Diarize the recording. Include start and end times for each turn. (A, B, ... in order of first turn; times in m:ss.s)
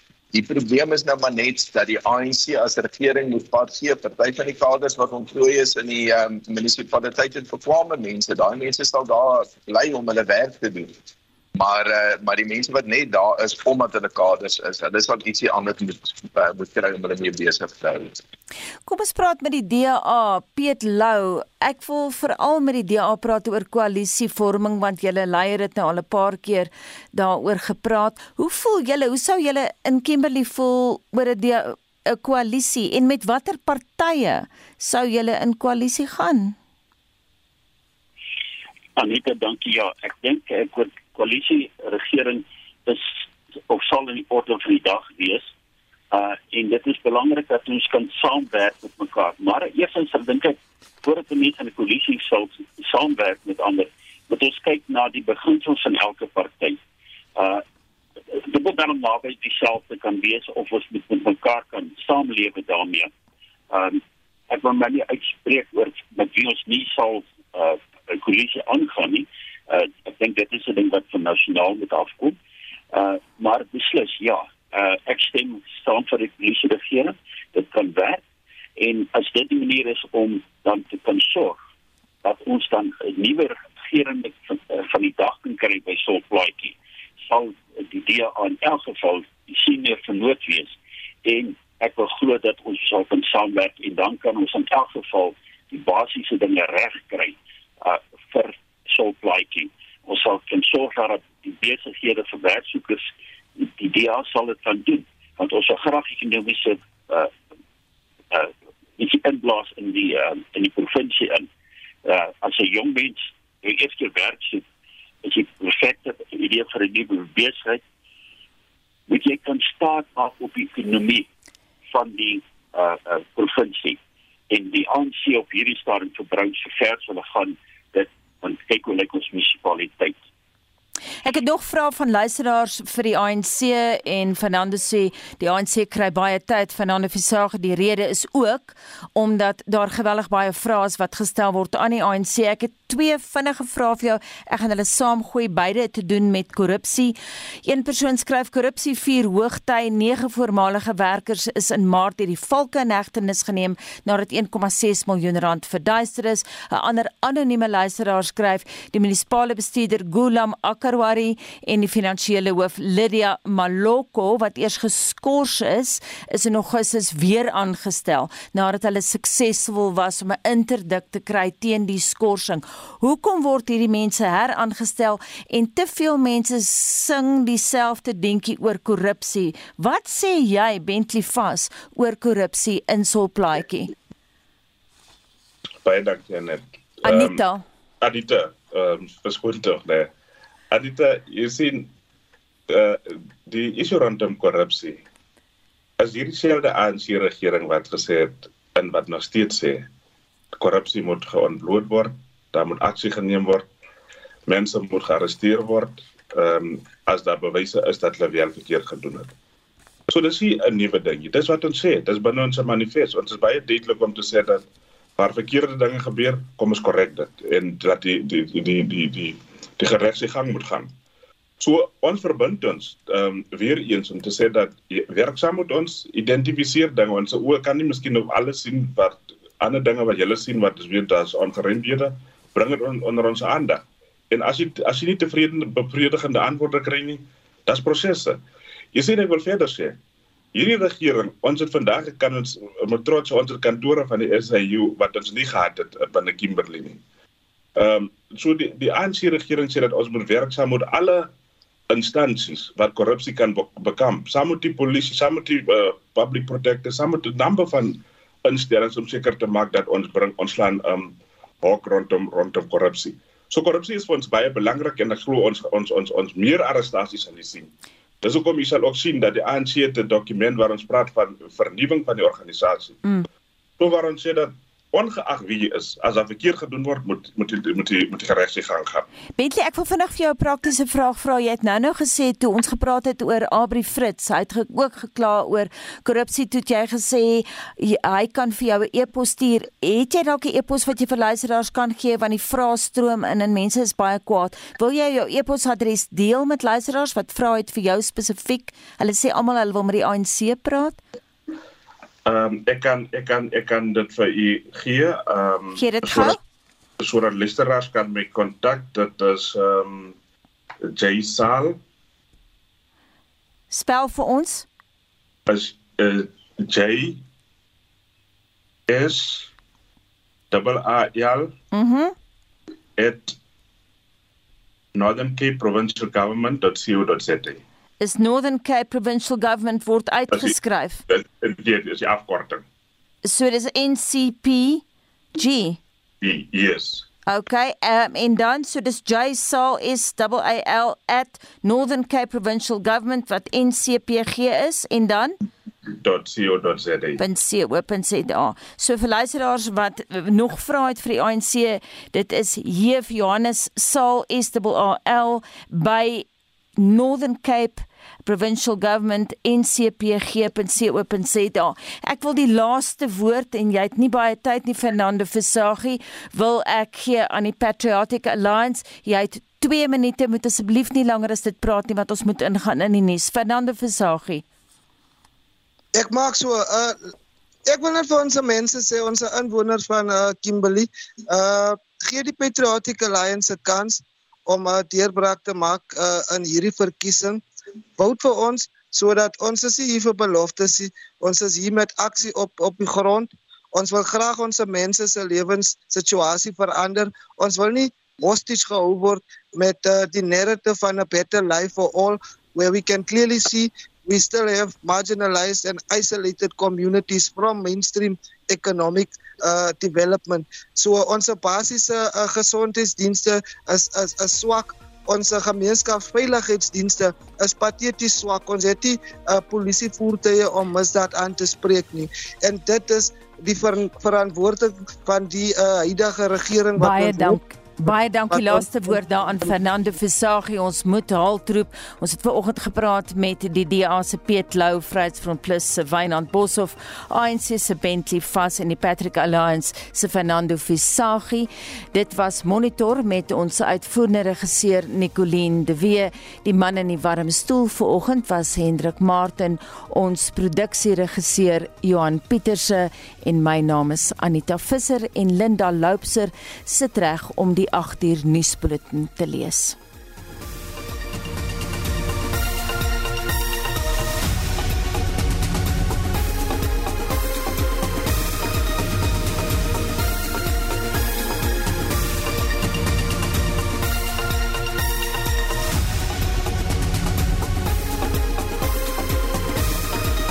0:00.3-0:10.9 A
0:11.5-0:18.2 A
0:18.9-0:36.6 B
0:39.0-0:43.1 C
0:43.7-0:45.5 C
0:46.1-0:56.8 C
0:57.4-0:57.6 C
0:58.3-1:03.1 C
1:03.7-1:12.4 C
1:12.9-1:18.2 C
1:18.8-1:21.6 C
1:22.2-1:47.3 C
1:48.3-1:51.5 C
1:52.0-1:54.6 C
1:55.2-1:57.8 C
1:59.1-2:01.3 C
2:01.9-2:04.0 C
2:04.5-2:10.2 C
2:11.2-3:03.9 B
3:05.8-3:07.4 D
3:07.0-3:07.6 B
3:08.0-3:10.1 D
3:10.7-3:11.9 D
3:12.7-3:15.0 D
3:16.0-3:19.9 D
3:20.6-3:23.7 D
3:24.5-3:29.3 D
3:30.1-3:34.6 D
3:35.2-3:40.9 D
3:41.6-3:58.4 D
3:58.9-4:00.0 D
4:00.5-4:07.0 D
4:07.8-4:11.3 D
4:11.9-4:27.7 D
4:28.2-4:33.0 D
4:33.8-4:39.0 D
4:39.4-5:01.0 B
5:02.2-5:06.4 D
5:05.7-5:06.4 B
5:07.0-5:10.2 D
5:10.9-5:11.8 D
5:13.7-5:14.6 B
5:15.5-5:17.2 D
5:18.9-5:19.5 D
5:20.5-5:21.5 D
5:21.7-5:22.1 B
5:23.0-5:23.4 D
5:24.9-5:27.6 D
5:28.0-5:31.0 B
5:30.3-5:30.5 D
5:31.1-5:32.6 D
5:33.2-5:34.8 B
5:35.4-5:35.8 B
5:36.2-5:37.0 D
5:37.3-5:45.3 B
5:45.9-5:47.2 D
5:47.2-5:56.2 B
5:56.8-6:14.4 B
6:15.9-6:17.1 E
6:17.6-6:27.4 E
6:28.0-7:07.4 E
7:06.8-7:39.8 B
7:08.3-7:09.0 E